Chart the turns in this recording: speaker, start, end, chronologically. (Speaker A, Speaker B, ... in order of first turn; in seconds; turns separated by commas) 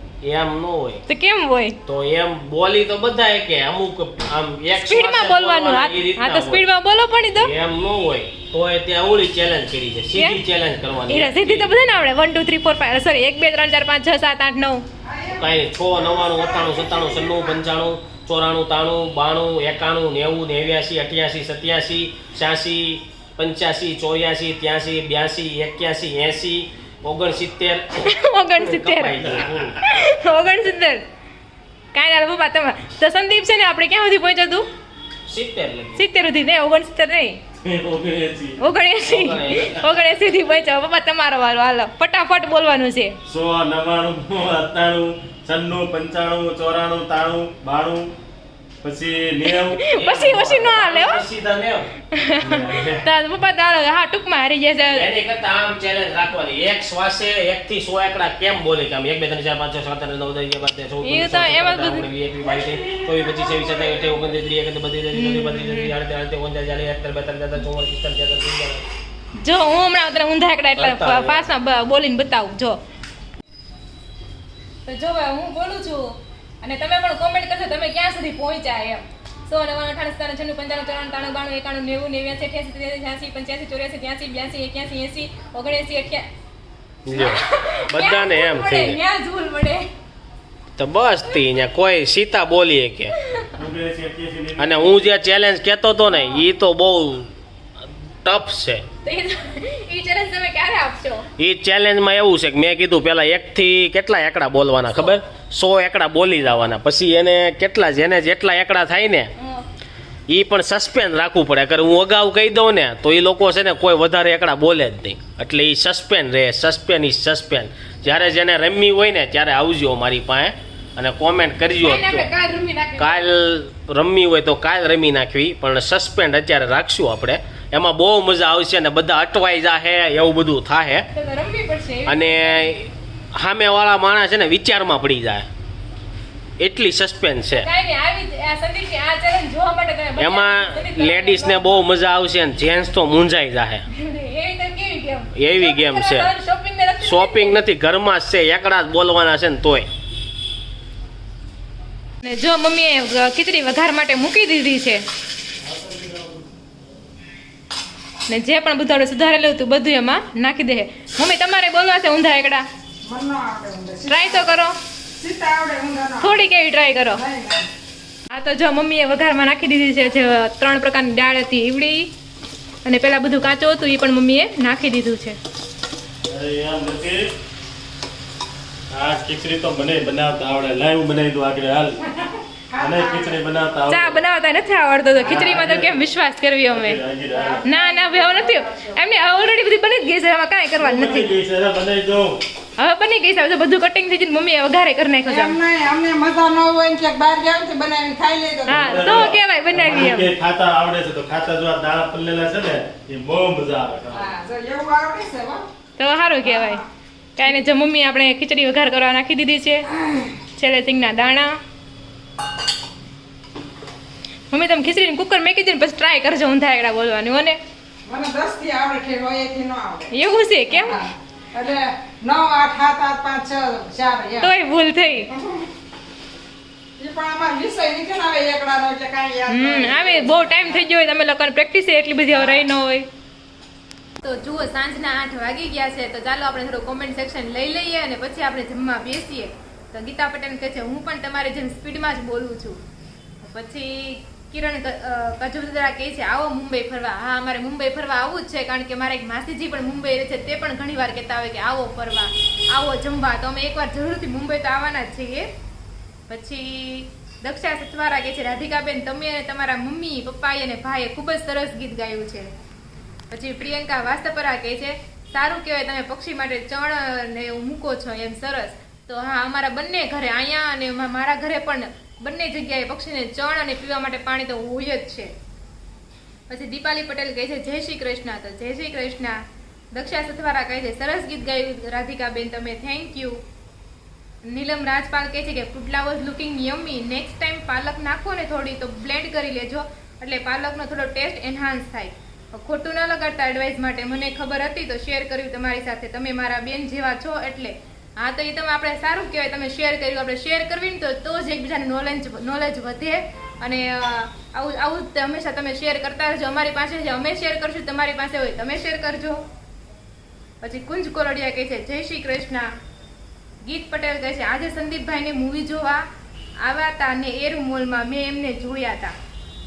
Speaker A: 0.2-1.0, Speaker B: 1.1-1.8, Speaker A: 1.9-6.6, Speaker B: 4.7-7.5, Speaker A: 7.4-11.7, Speaker B: 10.1-10.4, Speaker B: 11.1-14.8, Speaker C: 15.0-17.6, Speaker A: 15.4-29.8, Speaker B: 28.0-31.0, Speaker B: 31.9-34.7, Speaker A: 35.3-36.0, Speaker B: 36.0-37.4, Speaker D: 37.6-38.6, Speaker B: 38.6-43.2, Speaker A: 39.0-39.9, Speaker D: 43.3-48.1, Speaker D: 48.8-49.8, Speaker B: 49.5-51.2, Speaker A: 49.9-51.9, Speaker B: 52.1-55.1, Speaker D: 52.4-53.0, Speaker A: 54.9-68.8, Speaker B: 61.0-62.1, Speaker B: 65.1-65.9, Speaker B: 69.4-72.8, Speaker A: 70.8-71.5, Speaker B: 74.8-86.2, Speaker A: 87.0-89.0, Speaker B: 87.1-89.9, Speaker A: 90.8-93.1, Speaker B: 93.2-93.5, Speaker D: 93.6-95.0, Speaker A: 94.6-97.3, Speaker A: 98.2-98.8, Speaker B: 99.0-101.3, Speaker A: 101.4-109.3, Speaker B: 109.4-109.6, Speaker A: 110.3-122.3, Speaker B: 121.8-123.3, Speaker A: 123.0-131.1, Speaker B: 131.1-132.8, Speaker A: 132.1-135.5, Speaker A: 136.6-137.7, Speaker B: 137.5-141.8, Speaker A: 140.2-143.8, Speaker B: 143.9-147.6, Speaker A: 145.3-146.3, Speaker A: 147.0-149.9, Speaker B: 152.2-155.0, Speaker D: 155.6-156.5, Speaker B: 158.3-162.6, Speaker C: 163.0-164.5, Speaker B: 164.1-164.8, Speaker C: 165.2-166.4, Speaker B: 166.2-167.2, Speaker C: 167.1-167.7, Speaker B: 168.3-172.1, Speaker B: 172.8-175.4, Speaker D: 176.2-177.3, Speaker D: 178.9-182.0, Speaker C: 182.1-183.3, Speaker D: 182.8-184.2, Speaker B: 183.9-187.0, Speaker D: 185.2-186.0, Speaker D: 186.7-187.6, Speaker C: 187.3-189.0, Speaker B: 187.6-191.3, Speaker D: 190.8-192.4, Speaker B: 192.8-195.6, Speaker C: 195.2-199.2, Speaker B: 198.7-200.3, Speaker D: 198.7-204.3, Speaker C: 204.1-205.7, Speaker B: 206.0-206.8, Speaker C: 206.5-206.8, Speaker B: 207.4-211.6, Speaker B: 214.5-217.6, Speaker C: 218.1-220.1, Speaker B: 220.1-221.0, Speaker C: 220.7-224.5, Speaker B: 224.4-225.3, Speaker C: 225.3-225.7, Speaker C: 227.0-230.8, Speaker B: 229.5-233.1, Speaker B: 234.2-242.8, Speaker B: 243.4-255.5, Speaker B: 256.3-262.5, Speaker B: 263.3-275.3, Speaker B: 276.5-283.4, Speaker B: 284.4-309.4, Speaker B: 310.6-312.7, Speaker B: 313.6-316.0, Speaker B: 316.6-319.1